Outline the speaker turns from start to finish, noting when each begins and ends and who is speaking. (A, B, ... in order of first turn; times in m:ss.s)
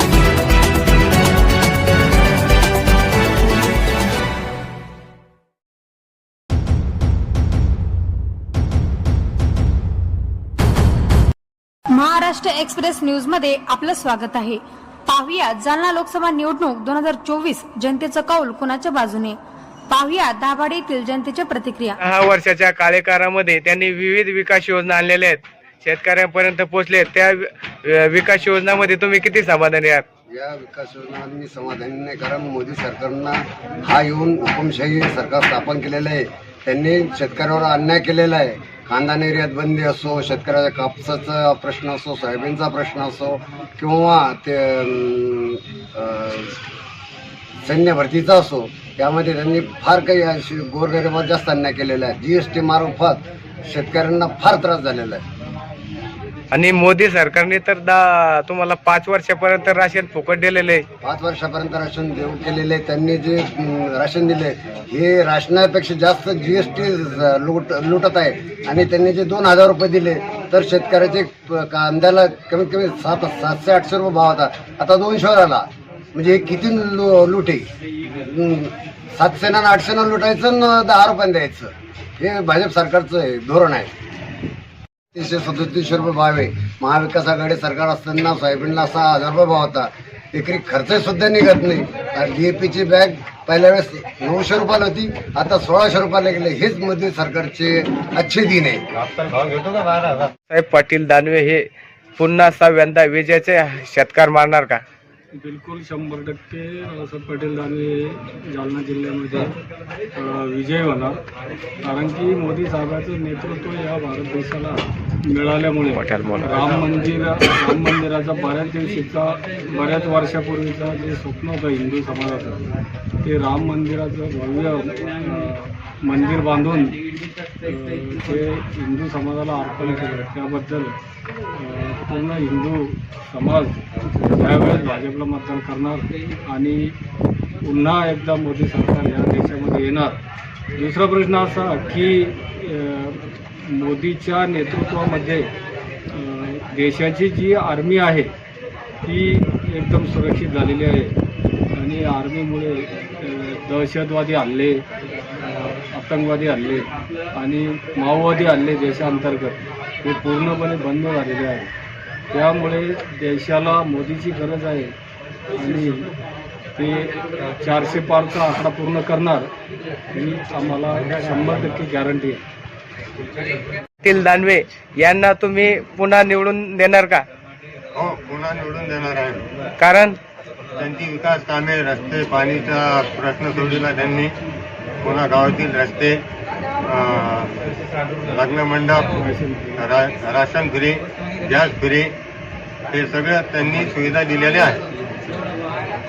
0:11.9-0:19.4 A
0:19.9-0:22.0 A
0:22.0-0:30.0 B
0:30.3-0:46.6 C
0:47.6-0:55.2 C
0:56.5-1:00.8 B
1:01.0-1:23.9 C
1:25.1-1:38.8 C
1:39.0-1:40.3 D
1:40.5-1:41.7 B
1:42.2-1:44.8 B
1:45.3-1:49.6 E
1:50.1-1:51.2 E
1:51.8-2:02.6 E
1:55.9-1:56.5 B
2:03.2-2:07.0 E
2:07.6-2:11.0 E
2:11.5-2:17.0 E
2:17.6-2:20.2 E
2:20.8-2:25.5 E
2:26.1-2:28.3 E
2:29.0-2:31.2 E
2:31.7-2:34.8 E
2:35.4-2:41.7 E
2:42.3-2:44.9 E
2:45.5-2:46.1 E
2:46.8-2:49.5 E
2:50.1-2:52.4 E
2:54.0-2:57.2 B
2:57.9-2:59.4 D
2:59.8-3:00.2 B
3:00.8-3:04.3 D
3:05.0-3:06.2 D
3:06.8-3:07.6 D
3:08.2-3:09.2 D
3:09.2-3:09.8 E
3:09.8-3:12.2 D
3:12.9-3:14.8 D